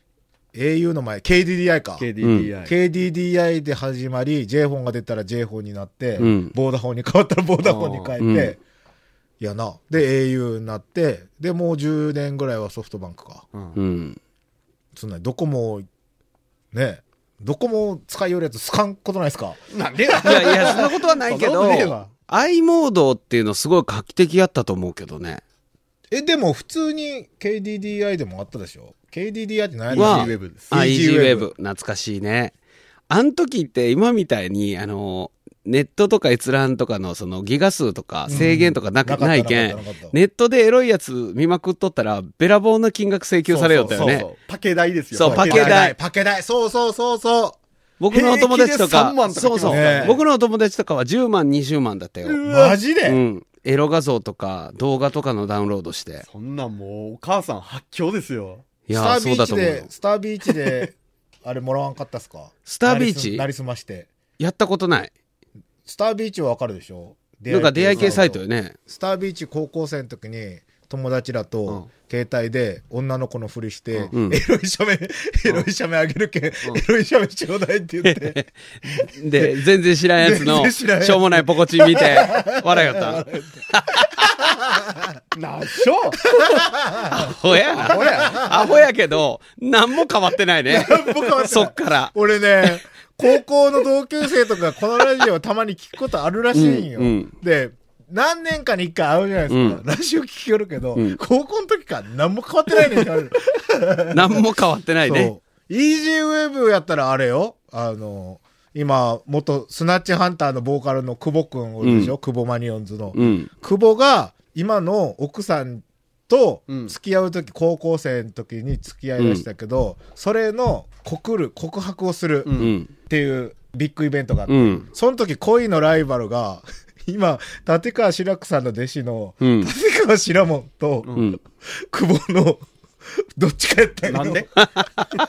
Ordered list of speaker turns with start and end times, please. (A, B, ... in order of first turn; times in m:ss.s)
0:00.5-0:02.1 A
0:02.0-0:02.7 B
0:02.2-0:02.5 C
0:02.6-0:08.6 A
0:06.2-0:06.5 C
0:07.6-0:08.2 B
0:08.2-0:08.6 C
0:09.4-0:13.4 A
0:13.8-0:14.2 C
0:15.0-0:15.9 A
0:16.7-0:20.9 A
0:19.7-0:22.1 B
0:20.2-0:25.4 C
0:26.1-0:31.5 A
0:29.9-0:30.7 B
0:29.9-0:32.5 C
0:33.1-0:44.3 C
0:38.3-0:40.2 A
0:43.5-0:44.2 A
0:43.6-0:45.8 B
0:45.1-0:45.9 C
0:45.2-0:47.6 A
0:48.0-0:52.4 C
0:48.1-0:50.2 B
0:49.6-0:50.2 A
0:52.2-0:52.8 B
0:52.4-0:53.2 A
0:53.1-0:56.2 C
0:56.2-0:58.6 B
0:58.9-0:59.9 C
0:58.9-1:04.1 A
1:02.7-1:03.4 C
1:04.4-1:05.1 C
1:05.9-1:18.4 A
1:07.5-1:08.8 C
1:14.1-1:14.4 C
1:18.0-1:24.4 C
1:19.4-1:19.6 A
1:20.2-1:25.2 A
1:25.3-1:26.2 B
1:26.3-1:28.5 A
1:27.1-1:32.8 C
1:27.7-1:28.8 B
1:30.7-1:44.5 A
1:36.5-1:37.3 C
1:39.5-1:39.8 C
1:44.1-1:45.3 C
1:45.0-2:14.5 A
1:51.8-1:52.1 C
1:53.1-1:53.5 C
1:56.7-1:56.9 B
1:59.2-1:59.4 C
2:02.5-2:02.7 B
2:02.6-2:02.9 C
2:04.5-2:04.8 C
2:09.4-2:09.7 C
2:11.2-2:11.4 C
2:14.1-2:14.5 B
2:14.6-2:15.1 C